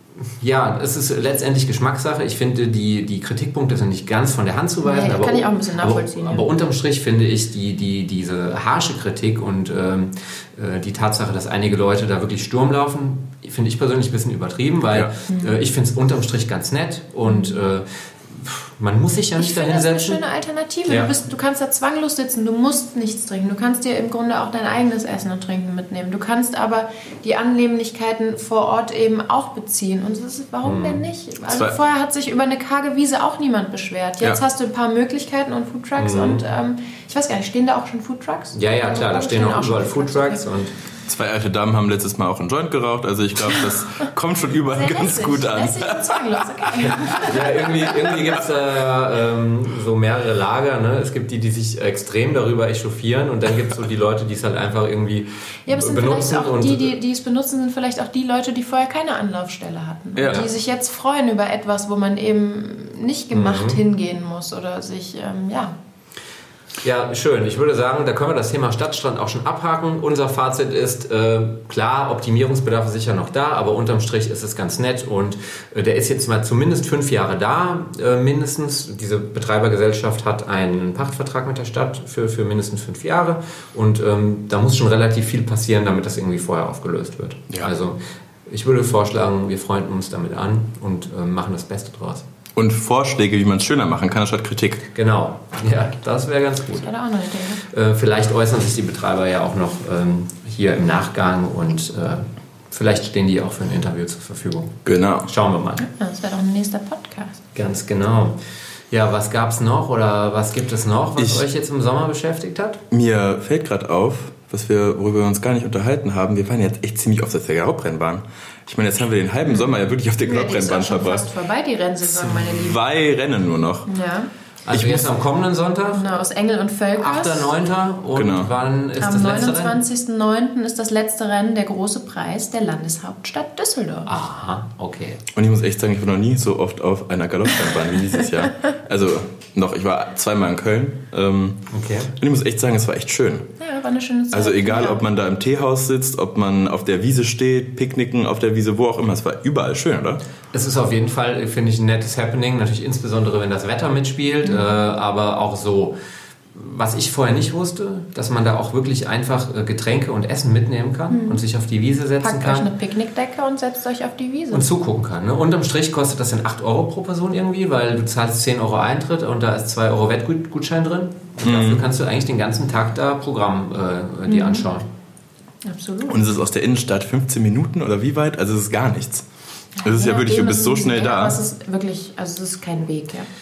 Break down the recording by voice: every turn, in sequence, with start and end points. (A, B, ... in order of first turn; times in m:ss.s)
0:00.4-0:20.2 A
0:04.8-0:06.5 B
0:15.3-0:15.6 B
0:17.2-0:17.6 B
0:19.4-0:40.4 B
0:20.9-0:21.1 A
0:30.6-0:31.0 A
0:31.5-0:31.8 C
0:36.0-0:36.4 A
0:38.5-0:40.7 A
0:41.1-0:47.3 C
0:44.7-0:47.4 B
0:47.1-0:56.9 A
0:55.6-1:05.7 B
1:00.2-1:00.4 C
1:03.3-1:03.8 A
1:06.8-1:32.2 A
1:32.6-1:34.9 C
1:34.9-1:36.9 A
1:36.8-1:37.6 B
1:37.6-1:45.8 A
1:44.8-1:45.3 C
1:45.8-1:47.4 B
1:47.5-1:48.4 A
1:48.9-1:52.8 A
1:51.2-1:51.4 C
1:52.9-2:01.3 C
1:59.4-2:02.8 B
2:02.3-2:03.9 C
2:03.8-2:04.3 B
2:04.6-2:06.0 A
2:04.7-2:05.1 C
2:05.9-2:07.5 B
2:07.0-2:09.8 A
2:08.1-2:08.5 C
2:09.0-2:14.1 B
2:14.1-2:15.2 A
2:15.3-2:21.6 C
2:21.7-2:22.1 A
2:22.2-2:23.5 C
2:23.6-2:25.1 B
2:24.3-2:30.2 C
2:30.5-2:35.9 A
2:34.4-2:34.8 B
2:36.5-2:42.7 A
2:41.1-2:41.4 B
2:42.2-2:44.6 B
2:44.5-2:54.8 A
2:51.4-2:51.8 C
2:54.3-2:54.6 B
2:55.6-2:56.2 B
2:56.1-2:59.2 C
2:59.8-3:03.3 B
2:59.8-3:01.4 C